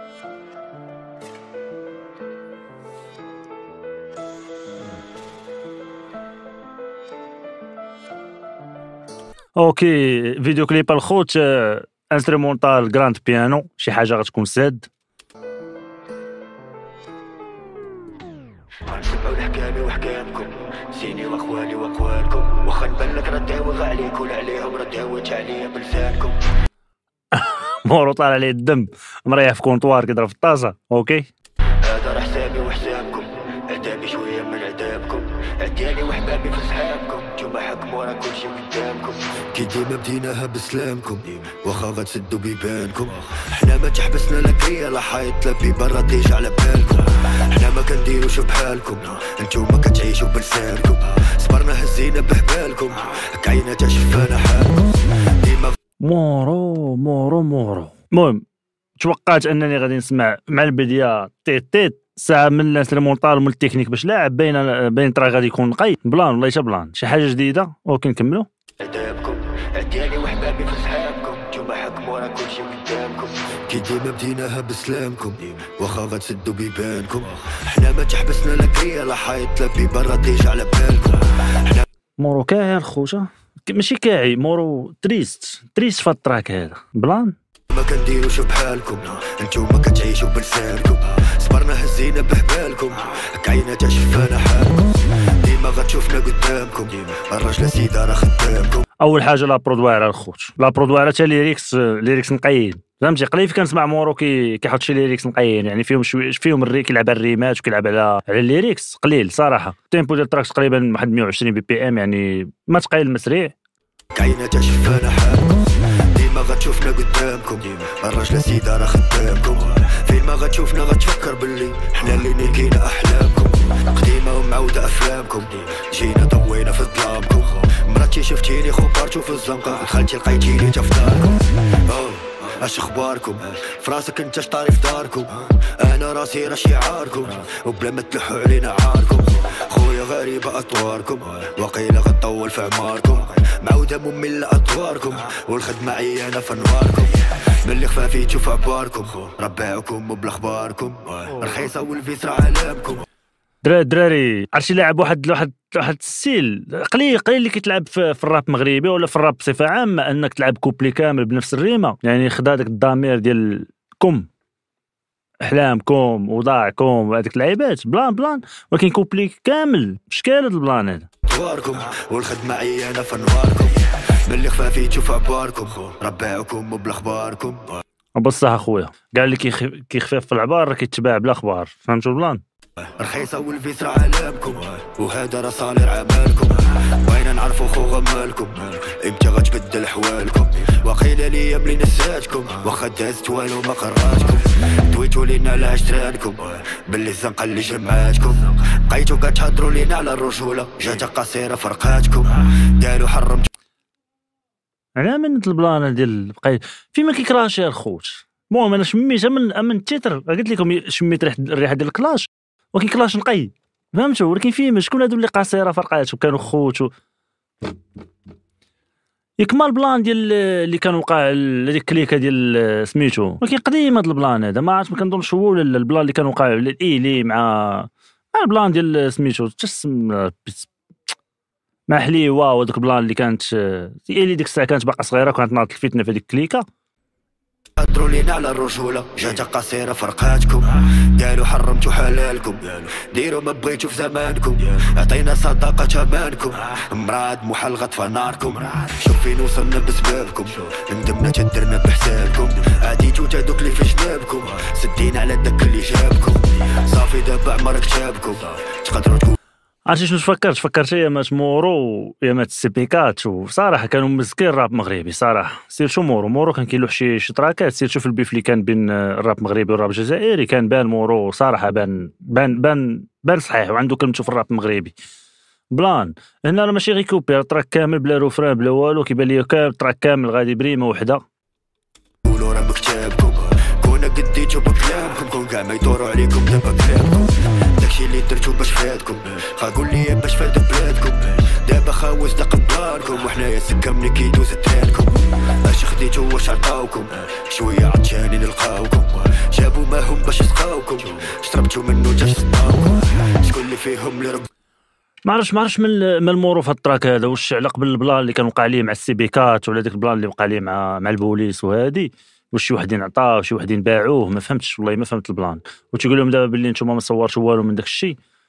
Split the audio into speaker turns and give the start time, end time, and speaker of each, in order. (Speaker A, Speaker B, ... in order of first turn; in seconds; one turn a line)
Speaker A: 9.6-14.9
Speaker B: 18.9-26.5
Speaker A: 27.3-31.3
Speaker B: 31.8-55.8
Speaker A: 56.0-58.4
Speaker A: 59.0-68.5
Speaker B: 68.8-81.8
Speaker A: 82.2-87.4
Speaker B: 87.7-98.8
Speaker A: 99.0-113.5
Speaker B: 114.2-153.1
Speaker A: 153.6-164.3
Speaker A: 165.4-171.1
Speaker B: 171.2-177.8
Speaker A: 178.2-182.4
Speaker B: 182.8-203.5
Speaker A: 205.0-216.9
Speaker A: 219.4-230.7
Speaker A: 231.9-236.6
Speaker B: 237.8-259.4
Speaker A: 259.9-274.9
Speaker A: 275.7-281.2
Speaker B: 282.2-304.5
Speaker A: 305.3-318.2